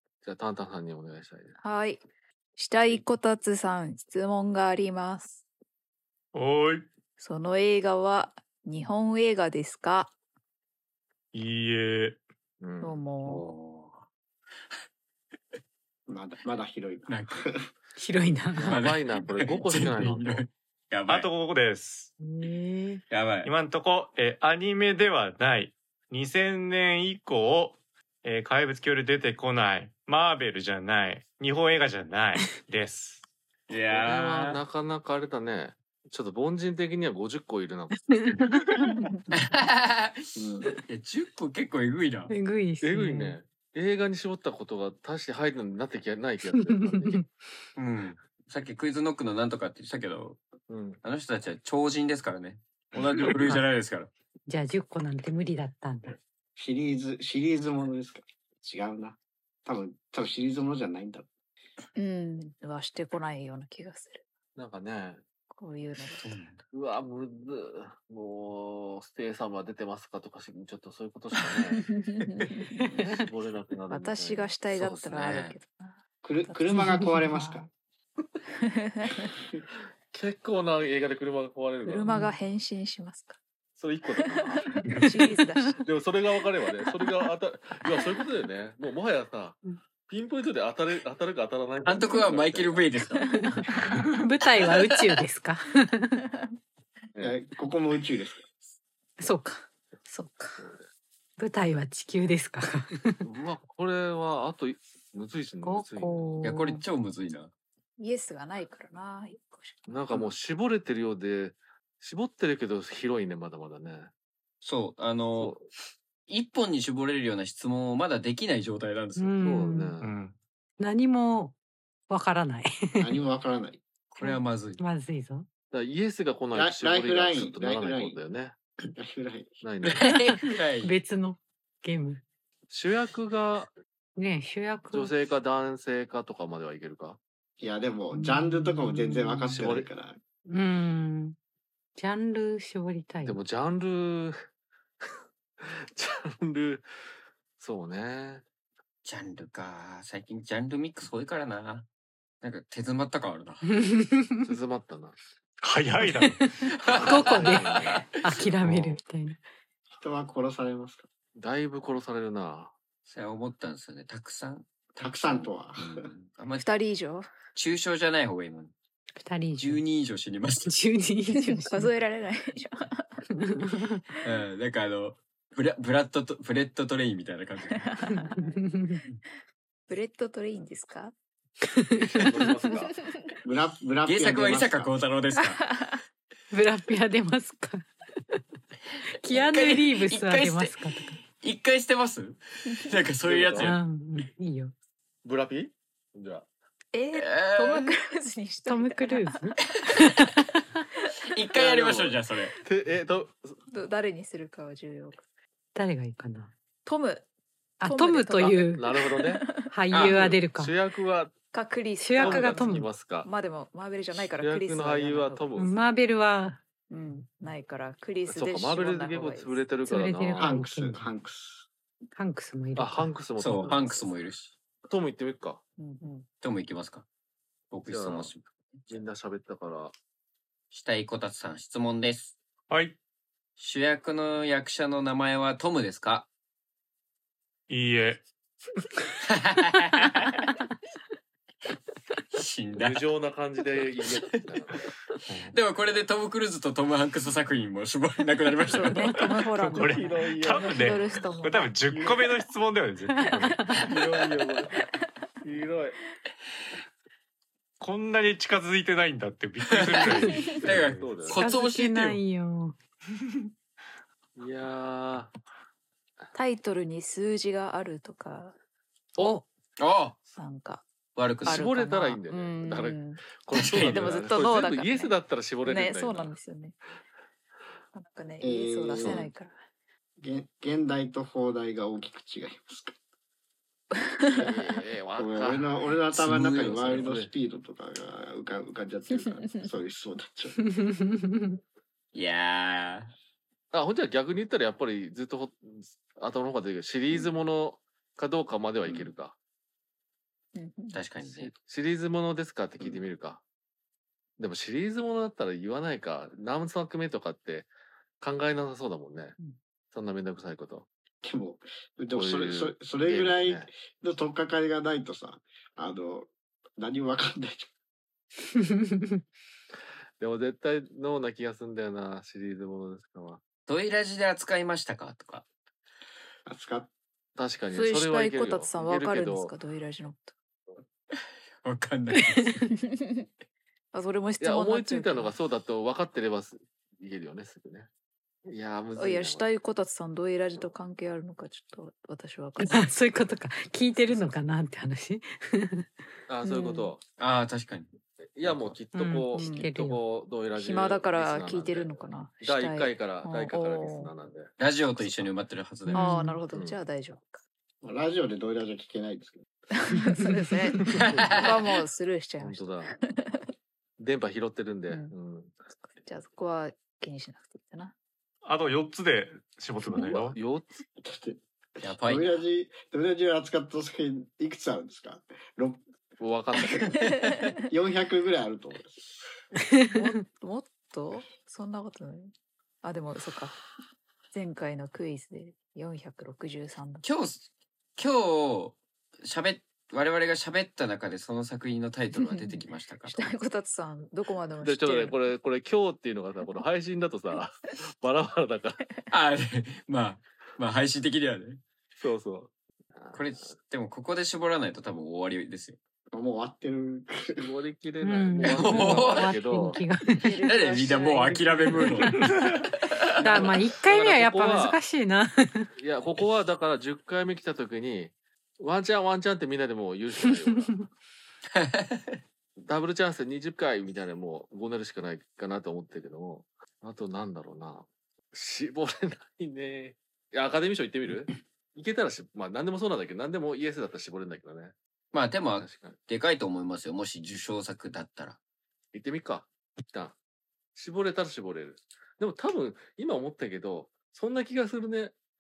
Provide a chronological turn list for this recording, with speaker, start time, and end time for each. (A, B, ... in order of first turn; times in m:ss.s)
0:00.2-0:01.6 A
0:01.6-0:02.0 B
0:02.6-0:05.4 B
0:06.3-0:06.9 C
0:07.2-0:10.1 B
0:11.3-0:12.2 C
0:12.6-0:13.0 A
0:12.8-0:13.5 B
0:13.2-0:14.1 D
0:16.1-0:17.7 E
0:17.1-0:17.5 D
0:18.0-0:18.8 F
0:18.6-0:20.4 A
0:18.6-0:21.3 D
0:21.1-0:22.1 C
0:22.2-0:23.0 F
0:23.1-0:23.5 D
0:23.4-0:33.2 C
0:33.7-0:34.6 D
0:33.9-0:38.0 A
0:38.1-0:38.8 F
0:38.9-0:39.2 B
0:39.3-0:42.3 D
0:40.4-0:40.7 E
0:42.3-0:43.4 F
0:42.8-0:47.2 A
0:46.5-0:47.3 F
0:47.8-0:50.4 D
0:50.7-0:51.0 A
0:51.0-0:54.1 D
0:54.5-0:56.2 F
0:56.6-1:01.3 E
1:02.0-1:04.2 B
1:04.6-1:05.2 A
1:05.5-1:06.3 B
1:06.2-1:06.6 D
1:06.7-1:11.9 A
1:11.9-1:12.8 B
1:12.8-1:13.2 E
1:13.2-1:15.2 A
1:13.9-1:17.7 B
1:15.1-1:15.6 D
1:16.2-1:17.7 E
1:18.5-1:19.3 B
1:20.1-1:22.1 A
1:21.8-1:23.4 B
1:22.1-1:22.3 F
1:23.8-1:24.9 A
1:24.4-1:25.8 B
1:24.8-1:25.4 F
1:25.8-1:32.9 A
1:31.8-1:33.6 D
1:34.1-1:36.2 F
1:34.6-1:35.2 D
1:37.2-1:38.4 E
1:39.2-1:40.6 F
1:41.4-1:43.2 F
1:43.2-1:46.4 A
1:45.6-1:46.8 F
1:46.4-1:47.5 D
1:48.0-1:50.0 B
1:49.9-1:54.1 A
1:54.6-1:55.6 D
1:55.4-1:55.7 A
1:56.3-1:59.4 D
1:59.2-2:00.0 F
1:59.4-2:00.1 A
2:00.0-2:00.4 C
2:00.8-2:01.6 F
2:02.1-2:03.2 F
2:03.0-2:03.8 E
2:04.1-2:04.8 D
2:04.2-2:05.5 F
2:05.7-2:08.6 A
2:06.5-2:08.2 E
2:08.8-2:09.6 E
2:09.6-2:10.1 A
2:09.8-2:10.9 D
2:10.0-2:12.2 F
2:12.7-2:13.7 A
2:14.2-2:15.1 F
2:14.9-2:17.2 A
2:17.6-2:20.2 E
2:18.1-2:19.6 F
2:19.6-2:19.9 A
2:20.5-2:21.4 F
2:22.0-2:23.4 F
2:23.2-2:24.4 A
2:25.6-2:26.9 A
2:27.6-2:28.4 A
2:29.0-2:31.9 D
2:32.4-2:33.7 D
2:33.7-2:34.4 F
2:34.4-2:35.2 A
2:35.6-2:36.4 C
2:36.1-2:39.4 F
2:36.7-2:38.4 D
2:36.9-2:39.0 A
2:39.9-2:41.1 E
2:41.4-2:42.7 A
2:43.0-2:46.7 D
2:45.0-2:46.1 E
2:46.6-2:47.3 B
2:47.6-2:48.7 D
2:49.2-2:49.8 F
2:49.6-2:50.8 D
2:50.7-2:51.9 F
2:51.3-2:53.2 B
2:53.3-2:54.0 F
2:54.2-2:57.9 D
2:57.9-2:58.3 B
2:58.0-2:59.0 F
2:59.9-3:01.1 B
3:01.7-3:02.5 F
3:01.9-3:03.0 A
3:03.4-3:05.0 E
3:04.1-3:05.7 D
3:06.5-3:08.4 F
3:09.2-3:11.2 F
3:09.3-3:13.8 D
3:13.2-3:13.7 A
3:13.6-3:14.7 F
3:15.2-3:16.5 A
3:16.9-3:19.6 B
3:17.1-3:17.9 D
3:18.7-3:20.6 F
3:21.3-3:22.6 D
3:21.5-3:23.6 A
3:23.7-3:25.2 B
3:25.8-3:26.5 F
3:26.8-3:27.3 B
3:27.8-3:28.9 F
3:27.8-3:29.7 B
3:28.4-3:31.3 A
3:29.6-3:30.7 F
3:29.9-3:30.4 D
3:31.5-3:35.5 B
3:32.0-3:32.9 F
3:32.2-3:33.3 A
3:34.4-3:35.8 A
3:35.6-3:36.6 F
3:36.9-3:39.6 B
3:38.3-3:40.6 A
3:39.9-3:41.0 F
3:40.4-3:41.7 E
3:42.2-3:43.1 F
3:42.8-3:44.1 A
3:43.4-3:44.5 D
3:44.9-3:45.6 A
3:45.8-3:46.3 B
3:46.4-3:47.1 D
3:47.7-3:48.9 D
3:47.9-3:48.3 A
3:48.9-3:49.9 A
3:50.7-3:52.4 D
3:52.7-3:53.0 C
3:53.6-3:56.3 D
3:57.7-3:58.2 C
3:59.2-4:00.5 D
4:02.3-4:03.0 D
4:02.8-4:04.8 A
4:04.0-4:04.4 D
4:05.3-4:05.6 C
4:05.5-4:09.3 D
4:08.7-4:11.7 B
4:09.2-4:13.6 C
4:09.8-4:10.9 A
4:11.9-4:12.3 A
4:13.1-4:13.5 F
4:13.4-4:13.9 B
4:13.8-4:14.8 A
4:15.4-4:16.0 A
4:17.8-4:21.1 C
4:19.7-4:22.2 D
4:20.2-4:20.6 F
4:20.6-4:21.5 A
4:21.4-4:22.8 F
4:24.4-4:25.3 A
4:26.3-4:28.6 B
4:29.2-4:29.4 F
4:29.2-4:30.2 D
4:30.4-4:30.8 B
4:31.2-4:31.7 D
4:31.4-4:33.2 B
4:31.4-4:36.3 A
4:33.5-4:34.1 D
4:33.7-4:36.8 B
4:37.9-4:39.6 B
4:38.4-4:39.3 E
4:39.0-4:39.3 A
4:40.2-4:43.0 E
4:44.0-4:44.4 B
4:44.4-4:45.7 A
4:45.2-4:50.6 E
4:46.1-4:47.1 D
4:46.8-4:47.3 A
4:51.3-4:51.6 F
4:52.1-4:53.1 D
4:53.7-4:59.4 A
5:00.6-5:01.0 B
5:00.9-5:01.5 D
5:01.2-5:03.4 A
5:04.4-5:07.7 A
5:08.2-5:09.4 A
5:09.9-5:10.9 A
5:11.2-5:17.7 E
5:12.1-5:13.7 A
5:18.6-5:19.2 F
5:20.2-5:23.4 A
5:23.7-5:25.5 D
5:26.5-5:26.9 E
5:27.4-5:29.5 A
5:27.7-5:30.3 B
5:31.6-5:32.7 D
5:33.9-5:35.3 B
5:34.4-5:37.9 A
5:38.5-5:39.4 A
5:39.0-5:42.9 B
5:42.6-5:45.9 F
5:46.3-5:47.0 A
5:46.4-5:46.9 B
5:47.2-5:47.9 D
5:48.4-5:55.3 A
5:48.4-5:48.8 D
5:48.9-5:50.0 F
5:49.3-5:49.7 B
5:50.6-5:54.1 B
5:54.6-5:56.2 D
5:55.9-5:56.4 F
5:55.9-5:57.4 B
5:57.8-5:59.4 E
5:59.8-6:03.4 B
6:00.9-6:01.5 D
6:01.0-6:01.6 A
6:02.4-6:02.9 A
6:04.0-6:05.6 A
6:04.9-6:05.1 B
6:05.8-6:08.0 B
6:08.4-6:10.4 C
6:09.9-6:10.8 A
6:11.0-6:15.8 E
6:11.8-6:12.4 D
6:16.2-6:17.0 A
6:17.7-6:19.3 E
6:19.9-6:22.3 B
6:22.8-6:23.6 B
6:24.3-6:27.1 B
6:27.0-6:33.3 D
6:32.2-6:35.2 B
6:34.6-6:38.8 A
6:39.1-6:41.6 D
6:42.0-6:43.2 A
6:43.1-6:45.8 D
6:46.1-6:47.5 E
6:47.4-6:49.8 A
6:48.0-6:50.4 F
6:48.4-6:49.4 D
6:50.2-6:52.1 B
6:50.4-6:53.6 D
6:51.8-6:52.5 F
6:53.2-6:55.7 F
6:53.2-6:54.8 A
6:55.8-7:00.7 A
7:01.6-7:02.2 D
7:02.6-7:14.7 A
7:15.1-7:18.4 D
7:15.6-7:16.0 A
7:18.9-7:20.2 A
7:20.8-7:25.1 A